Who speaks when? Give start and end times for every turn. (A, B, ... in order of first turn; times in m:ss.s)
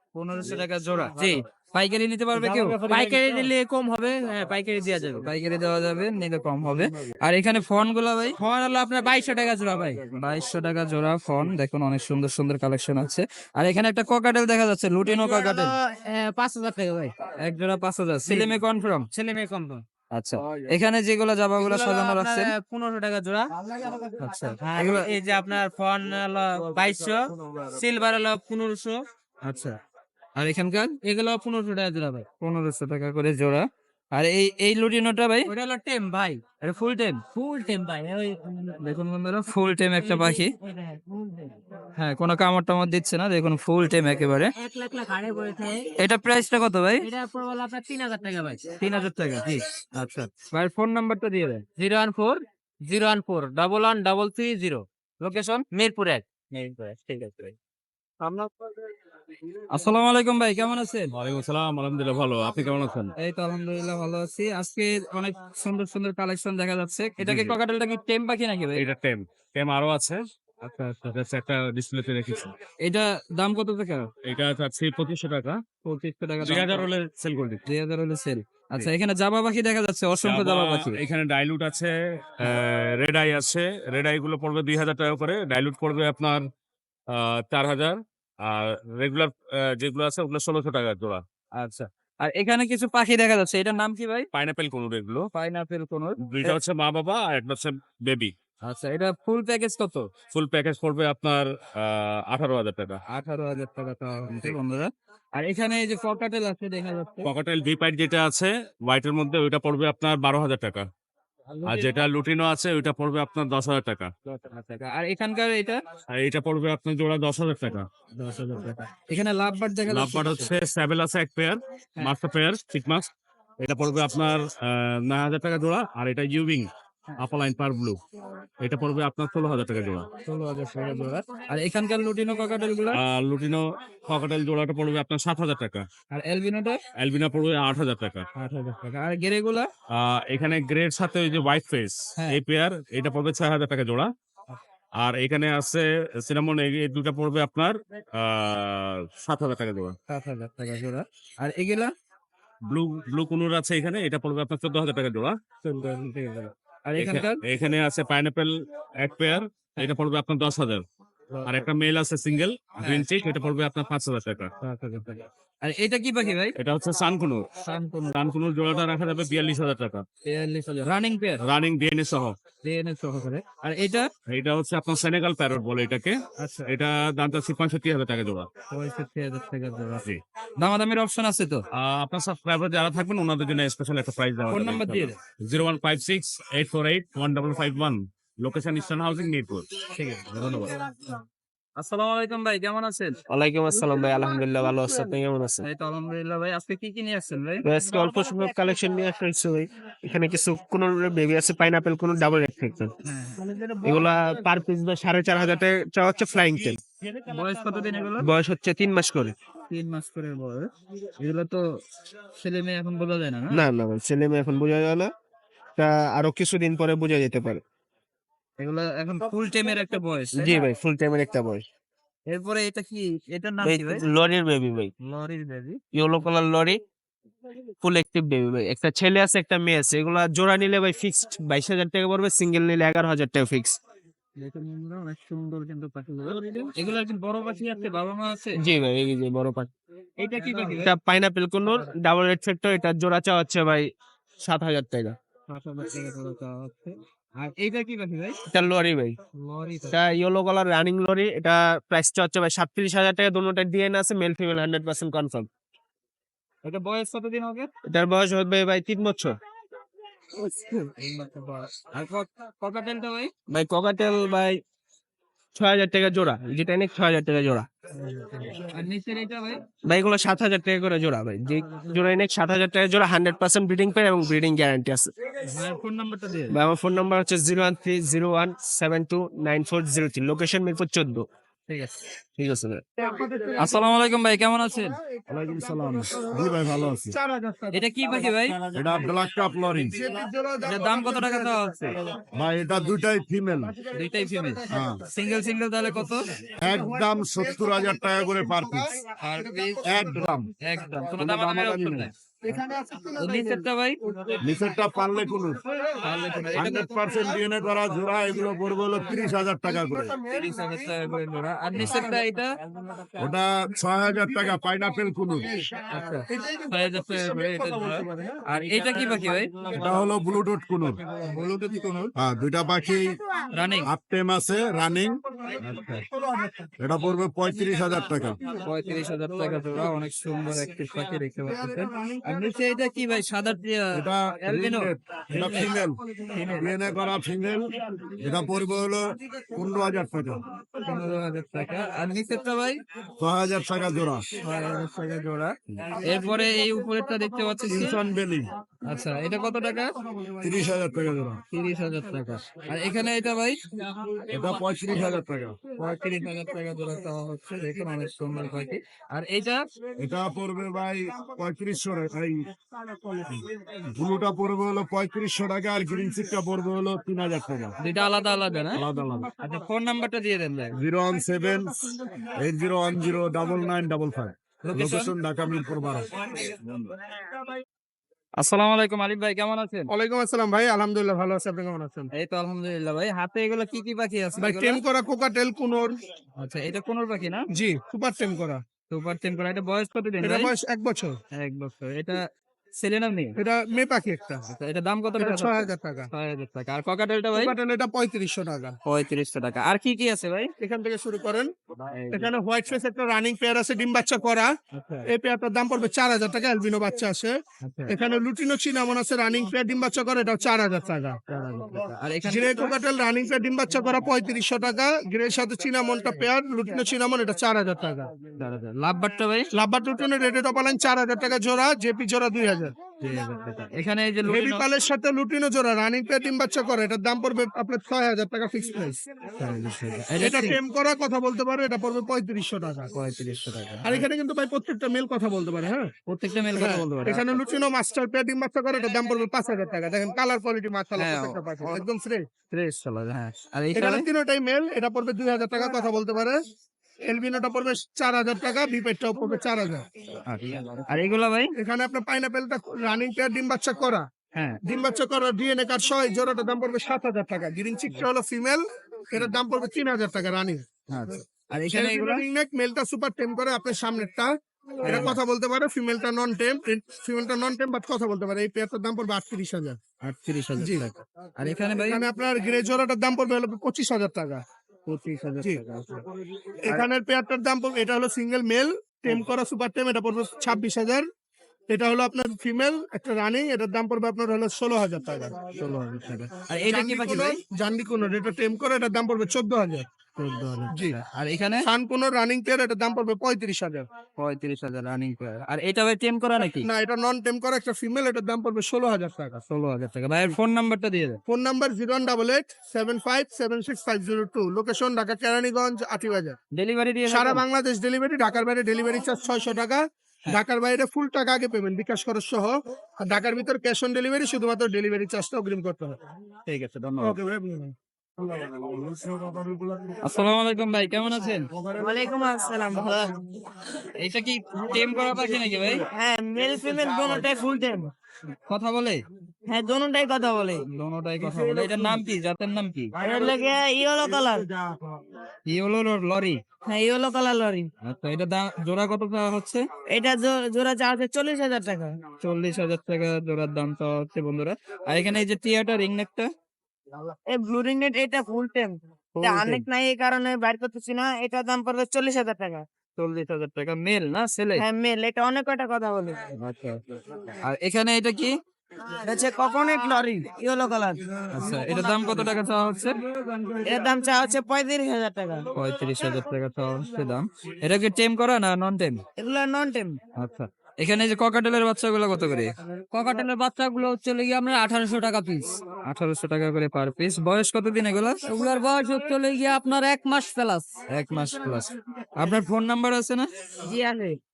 0:00.1-0:03.1 A
0:02.4-0:05.2 B
0:05.2-0:08.4 A
0:08.4-0:10.0 B
0:10.1-0:15.7 A
0:15.2-0:17.1 B
0:17.4-0:19.1 A
0:19.1-0:19.8 B
0:20.1-0:22.5 A
0:21.6-0:23.5 B
0:24.2-0:25.1 A
0:24.6-0:29.0 B
0:29.4-0:29.8 A
0:30.4-0:30.9 A
0:31.0-0:32.2 B
0:32.4-0:35.5 A
0:35.5-0:36.4 B
0:36.6-0:37.2 A
0:37.3-0:38.7 B
0:38.8-0:40.5 A
0:40.7-0:41.4 B
0:42.0-0:44.5 A
0:44.6-0:45.8 B
0:46.0-0:47.1 A
0:47.1-0:48.6 B
0:48.8-0:51.6 A
0:51.8-0:54.8 B
0:55.5-0:57.4 B
0:59.7-1:01.1 A
1:01.1-1:03.1 C
1:03.2-1:08.8 A
1:07.2-1:07.6 C
1:08.8-1:10.2 C
1:10.6-1:11.1 A
1:11.1-1:12.5 C
1:12.8-1:14.1 A
1:14.2-1:15.6 C
1:15.8-1:16.8 A
1:16.4-1:17.6 C
1:17.7-1:21.0 A
1:20.2-1:26.4 C
1:27.1-1:31.2 C
1:31.5-1:34.3 A
1:34.3-1:35.3 C
1:35.3-1:36.6 A
1:36.3-1:38.3 C
1:38.6-1:40.0 A
1:40.3-1:43.0 C
1:43.1-1:47.3 A
1:47.2-1:50.8 C
1:51.5-1:51.9 A
1:51.6-1:54.1 C
1:54.3-1:55.8 A
1:56.1-1:57.9 C
1:58.2-2:00.5 A
1:59.9-2:03.1 C
2:03.6-2:06.7 C
2:07.2-2:08.0 C
2:08.6-2:10.1 C
2:10.2-2:13.0 A
2:12.9-2:15.9 C
2:16.1-2:16.8 A
2:16.9-2:18.2 C
2:18.4-2:19.7 A
2:19.9-2:24.1 C
2:25.0-2:30.0 C
2:30.1-2:31.9 A
2:32.7-2:35.4 C
2:35.6-2:37.4 A
2:37.0-2:40.8 C
2:41.3-2:41.6 A
2:41.4-2:44.5 C
2:44.6-2:46.5 A
2:46.6-2:47.5 C
2:47.6-2:48.1 A
2:48.1-2:50.0 C
2:50.2-2:51.4 A
2:51.4-2:52.4 C
2:52.6-2:54.1 A
2:54.3-2:58.5 C
2:56.4-2:56.7 A
2:58.7-3:00.0 A
3:00.6-3:01.6 A
3:01.7-3:09.7 C
3:04.5-3:05.1 A
3:09.9-3:11.2 A
3:11.8-3:13.2 A
3:13.3-3:15.6 D
3:13.6-3:14.3 E
3:15.6-3:17.6 A
3:17.7-3:22.9 D
3:17.7-3:18.9 E
3:21.3-3:22.4 E
3:23.0-3:23.4 A
3:23.8-3:26.8 D
3:27.2-3:28.3 A
3:28.2-3:29.3 D
3:29.7-3:30.7 A
3:31.2-3:31.6 A
3:32.4-3:33.6 A
3:33.6-3:35.1 D
3:35.8-3:37.6 D
3:38.6-3:40.6 A
3:40.4-3:41.6 D
3:42.3-3:44.0 A
3:43.7-3:44.9 D
3:45.0-3:45.8 A
3:45.9-3:46.8 D
3:47.8-3:53.8 D
3:49.2-3:49.7 E
3:54.4-3:58.6 A
3:58.6-3:59.7 D
3:58.9-3:59.7 E
4:00.2-4:00.9 A
4:00.9-4:03.8 D
4:04.5-4:05.1 D
4:04.7-4:05.1 E
4:05.5-4:08.4 A
4:08.5-4:09.2 E
4:08.6-4:09.0 D
4:09.4-4:09.9 A
4:09.9-4:11.4 D
4:09.9-4:12.9 E
4:11.9-4:15.5 D
4:13.5-4:15.3 E
4:16.6-4:17.7 A
4:17.9-4:19.3 E
4:20.4-4:23.3 A
4:23.5-4:24.6 D
4:25.6-4:27.6 E
4:25.6-4:27.6 D
4:28.0-4:29.6 A
4:29.9-4:35.0 D
4:31.7-4:32.1 E
4:33.0-4:33.5 E
4:34.0-4:35.0 E
4:35.4-4:36.5 A
4:36.5-4:41.2 D
4:40.3-4:41.2 E
4:41.7-4:41.9 A
4:42.4-4:42.8 E
4:43.0-4:43.7 F
4:43.6-4:45.0 A
4:45.3-4:47.1 G
4:47.3-4:47.8 F
4:47.7-4:48.6 A
4:48.7-4:50.0 G
4:50.1-4:51.5 F
4:50.6-4:51.9 A
4:52.3-4:53.7 G
4:53.9-4:56.2 A
4:54.7-4:55.0 G
4:56.6-4:58.8 G
4:59.2-5:02.1 A
4:59.8-5:00.2 G
5:01.3-5:02.1 G
5:02.4-5:03.4 F
5:03.2-5:04.0 A
5:04.4-5:05.6 G
5:06.0-5:06.8 A
5:06.5-5:10.2 G
5:10.3-5:12.5 A
5:13.2-5:15.6 G
5:15.9-5:19.5 A
5:19.7-5:21.0 G
5:21.3-5:22.1 A
5:22.2-5:23.2 G
5:23.5-5:23.9 A
5:23.8-5:25.2 G
5:25.6-5:26.0 A
5:26.8-5:28.4 G
5:28.6-5:35.7 A
5:33.9-5:36.0 G
5:36.3-5:36.7 A
5:36.6-5:40.4 G
5:40.8-5:42.8 A
5:43.2-5:44.2 G
5:44.4-5:48.0 A
5:47.7-5:48.5 G
5:48.8-5:49.9 A
5:50.4-5:51.4 G
5:51.5-5:53.6 A
5:54.3-5:55.6 G
5:55.8-5:59.6 A
6:00.0-6:02.5 G
6:03.9-6:07.7 G
6:07.8-6:08.8 A
6:08.7-6:09.3 G
6:09.4-6:10.7 A
6:10.7-6:11.8 G
6:12.3-6:16.1 G
6:14.6-6:15.1 A
6:16.4-6:16.9 A
6:18.4-6:19.9 A
6:19.9-6:22.1 F
6:22.1-6:24.8 A
6:24.5-6:25.9 F
6:26.4-6:27.4 A
6:27.6-6:28.6 F
6:28.9-6:30.5 A
6:30.2-6:31.1 F
6:31.3-6:32.2 A
6:32.8-6:33.4 A
6:33.4-6:34.4 F
6:34.5-6:37.5 A
6:35.2-6:36.1 F
6:37.5-6:38.7 F
6:38.8-6:40.5 A
6:40.6-6:41.5 F
6:41.8-6:42.3 A
6:42.1-6:44.5 F
6:44.7-6:45.1 A
6:45.1-6:47.4 F
6:47.6-6:47.9 A
6:47.9-6:51.2 F
6:51.3-6:52.7 A
6:52.3-6:58.1 F
6:58.4-6:59.5 A
6:59.5-7:02.7 F
7:03.0-7:04.6 A
7:04.3-7:09.0 F
7:09.4-7:10.6 A
7:10.2-7:12.9 F
7:12.9-7:14.0 A
7:13.8-7:15.9 F
7:16.1-7:17.4 A
7:16.7-7:22.2 F
7:21.0-7:21.8 A
7:22.5-7:24.0 A
7:23.7-7:26.4 F
7:27.0-7:29.8 F
7:30.3-7:31.5 A
7:31.6-7:34.0 F
7:34.6-7:40.6 F
7:40.9-7:42.2 A
7:41.7-7:44.3 F
7:44.8-7:45.2 A
7:44.9-7:49.8 F
7:50.0-7:52.0 A
7:52.0-7:54.4 F
7:54.9-7:56.0 A
7:56.6-8:01.0 F
8:01.7-8:05.3 F
8:05.5-8:07.4 A
8:06.7-8:09.8 F
8:10.2-8:11.6 A
8:10.7-8:11.0 F
8:11.6-8:13.9 F
8:14.2-8:16.7 A
8:16.6-8:19.4 F
8:19.5-8:21.2 A
8:21.3-8:26.4 F
8:26.5-8:27.4 A
8:27.1-8:36.0 F
8:36.4-8:37.2 A
8:38.2-8:40.0 G
8:40.0-8:41.5 A
8:41.7-8:43.1 E
8:44.0-8:45.8 A
8:45.9-8:47.9 E
8:48.5-8:49.0 A
8:49.5-8:50.6 E
8:50.6-8:52.9 A
8:53.0-8:54.5 E
8:55.5-8:56.4 A
8:56.6-8:57.7 E
8:57.8-8:59.6 A
8:59.9-9:02.0 E
9:02.2-9:06.3 A
9:07.3-9:12.6 E
9:09.2-9:09.6 A
9:13.0-9:14.6 A
9:14.6-9:16.2 E
9:16.4-9:18.4 A
9:19.0-9:21.0 E
9:21.3-9:23.0 A
9:23.6-9:25.5 E
9:25.5-9:29.0 A
9:29.2-9:30.0 E
9:30.2-9:32.5 A
9:32.9-9:35.6 B
9:35.8-9:38.2 A
9:38.3-9:40.6 B
9:40.9-9:43.3 A
9:43.7-9:44.1 E